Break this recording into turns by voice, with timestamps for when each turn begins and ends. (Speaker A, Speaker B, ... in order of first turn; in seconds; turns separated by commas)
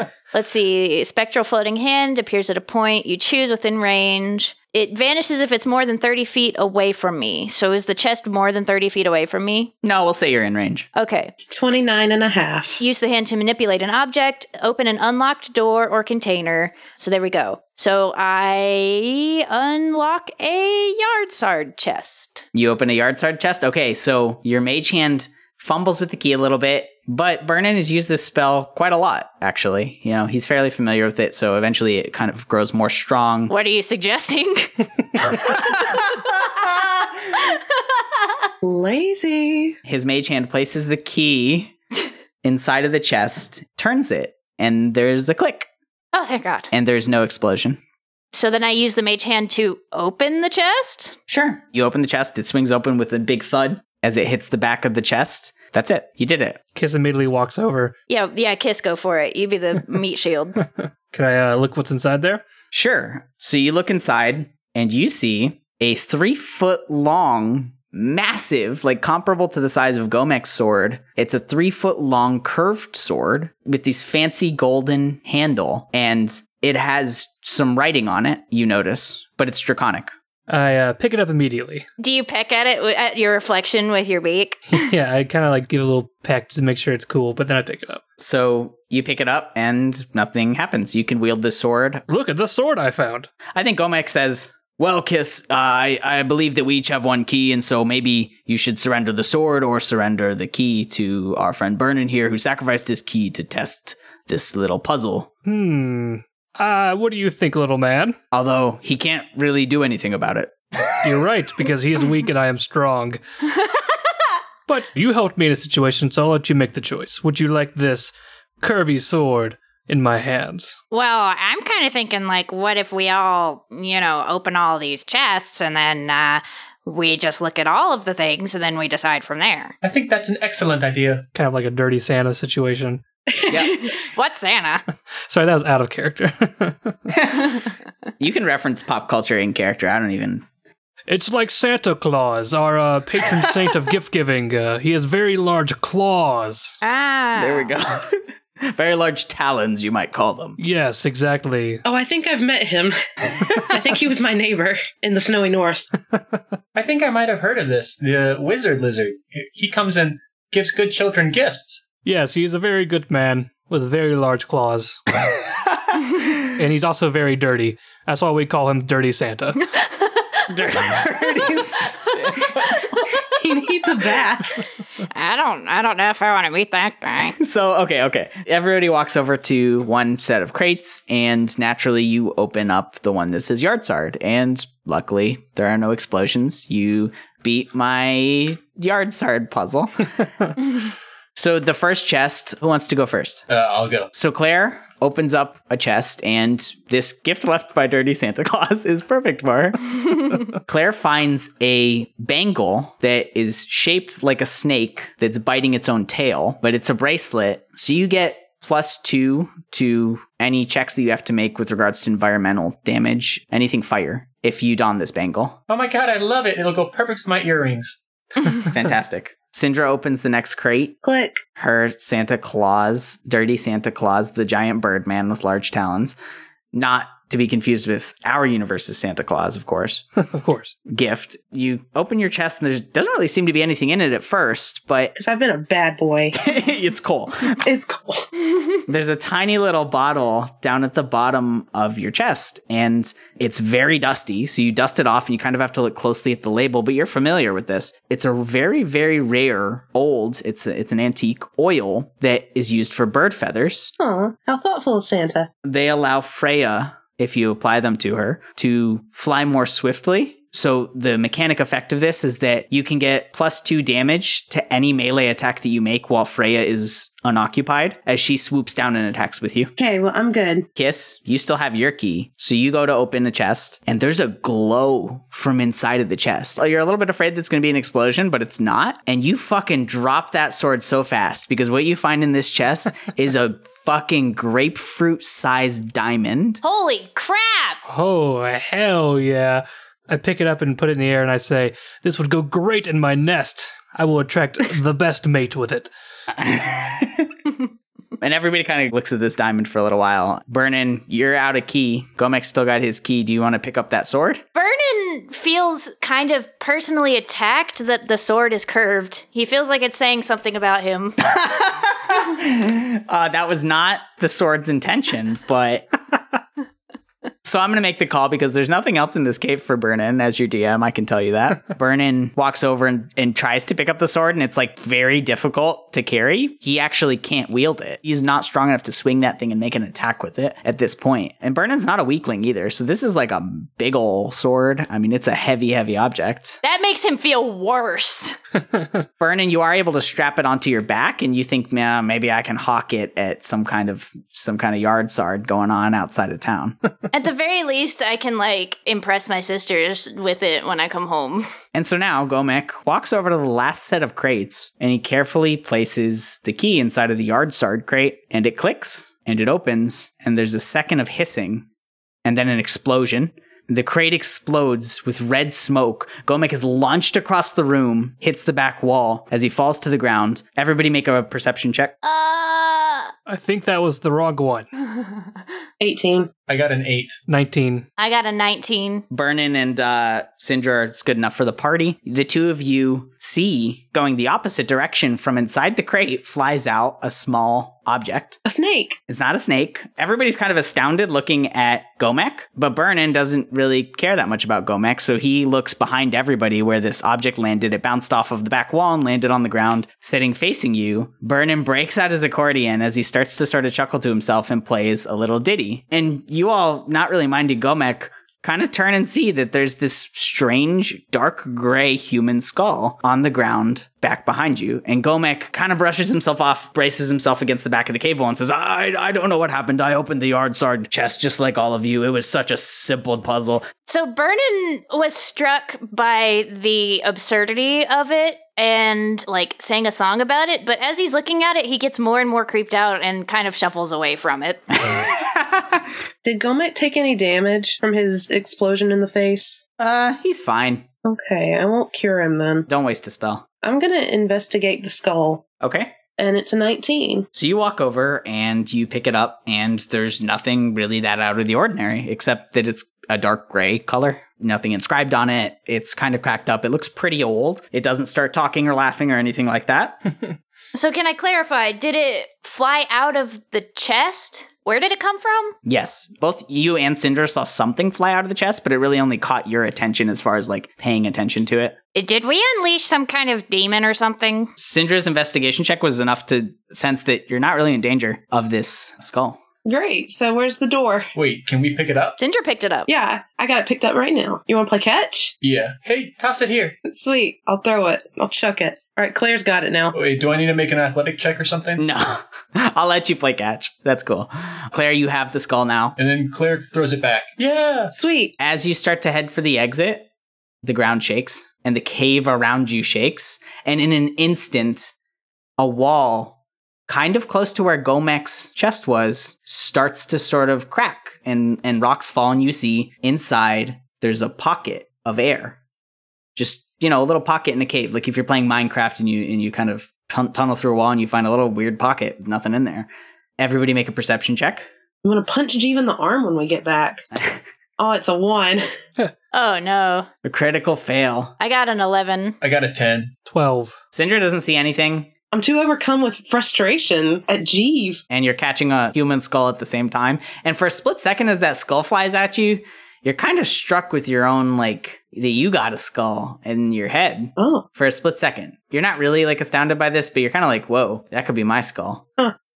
Speaker A: 0.3-9.7, Speaker B: 9.8-10.9, Speaker A: 10.9-11.3, Speaker C: 11.4-12.8, Speaker A: 12.8-22.4, Speaker B: 22.5-33.5, Speaker A: 33.5-36.7, Speaker A: 37.3-38.4, Speaker C: 38.6-39.8, Speaker B: 39.9-41.8, Speaker B: 42.4-45.7, Speaker A: 46.1-46.7, Speaker B: 46.7-47.8, Speaker A: 48.3-51.2, Speaker B: 51.3-56.6, Speaker D: 56.8-57.9, Speaker A: 58.1-60.6, Speaker D: 60.6-62.4, Speaker B: 62.7-80.1, Speaker D: 80.5-81.9, Speaker A: 82.0-84.9, Speaker D: 84.7-88.0, Speaker B: 88.2-92.0, Speaker D: 92.1-93.3, Speaker B: 93.5-105.3, Speaker D: 105.5-108.2, Speaker B: 108.3-111.0, Speaker D: 111.0-113.2, Speaker D: 114.7-120.8, Speaker A: 120.9-129.7, Speaker E: 129.8-131.2, Speaker D: 131.3-133.0, Speaker B: 133.5-133.7, Speaker A: 133.5-134.8, Speaker D: 135.3-137.0, Speaker B: 137.1-137.6, Speaker B: 138.2-140.4, Speaker D: 141.1-146.8, Speaker A: 146.8-147.7, Speaker B: 147.4-150.6, Speaker D: 150.6-151.8, Speaker C: 151.8-155.8, Speaker E: 156.8-161.8, Speaker D: 162.0-165.0, Speaker D: 166.6-169.7, Speaker A: 169.8-170.5, Speaker B: 170.5-173.0, Speaker C: 173.3-174.4, Speaker B: 173.8-174.5, Speaker A: 175.1-177.4, Speaker B: 177.4-190.3, Speaker B: 191.3-193.4, Speaker E: 193.5-194.1, Speaker B: 194.1-215.6, Speaker E: 215.7-218.0, Speaker B: 218.7-221.0, Speaker C: 221.0-221.4, Speaker B: 221.6-226.2, Speaker B: 226.7-230.1, Speaker D: 230.3-230.8, Speaker B: 230.9-235.2, Speaker C: 235.2-236.4, Speaker B: 236.3-237.7, Speaker C: 237.6-238.3, Speaker B: 238.9-253.9, Speaker C: 254.0-255.5, Speaker B: 255.6-269.7, Speaker C: 269.8-270.7, Speaker B: 270.8-286.6, Speaker A: 286.6-287.8, Speaker D: 287.9-295.9, Speaker B: 296.4-297.3, Speaker B: 298.2-304.4, Speaker A: 304.6-311.2, Speaker B: 311.2-315.9, Speaker B: 317.4-336.6, Speaker A: 336.6-338.4, Speaker B: 339.2-346.8, Speaker A: 347.1-351.5, Speaker B: 351.7-361.7, Speaker B: 362.2-371.9, Speaker A: 372.0-373.1, Speaker D: 373.3-374.7, Speaker C: 375.8-376.3, Speaker E: 376.5-377.2, Speaker D: 377.3-377.9, Speaker A: 378.0-379.1, Speaker B: 379.1-388.4, Speaker C: 388.4-389.0, Speaker B: 389.1-423.7, Speaker A: 423.9-434.9, Speaker B: 434.9-435.8, Speaker C: 436.2-439.7, Speaker B: 439.8-440.9, Speaker C: 441.1-442.7, Speaker B: 442.7-443.4, Speaker C: 443.6-445.4, Speaker B: 445.6-445.9, Speaker C: 446.2-447.3, Speaker B: 447.3-460.0, Speaker A: 460.7-465.6, Speaker B: 465.7-471.8, Speaker A: 471.9-474.5, Speaker B: 474.6-479.4, Speaker C: 479.6-481.1, Speaker E: 481.2-482.2, Speaker A: 482.2-482.9, Speaker C: 482.9-485.3, Speaker E: 485.4-486.8, Speaker C: 486.9-489.9, Speaker E: 489.9-491.8, Speaker B: 491.8-496.0, Speaker E: 496.0-497.9, Speaker C: 497.9-498.4, Speaker B: 498.4-500.1, Speaker B: 500.6-504.9, Speaker B: 505.6-506.4, Speaker B: 506.9-515.6, Speaker B: 516.4-524.7, Speaker C: 525.0-527.1, Speaker B: 527.1-527.4, Speaker C: 527.8-528.6, Speaker A: 529.3-530.1, Speaker B: 530.2-531.3, Speaker A: 531.4-532.4, Speaker E: 532.4-533.1, Speaker D: 533.3-533.8, Speaker B: 533.9-535.1, Speaker C: 535.3-538.0, Speaker B: 538.1-552.0, Speaker C: 547.4-547.7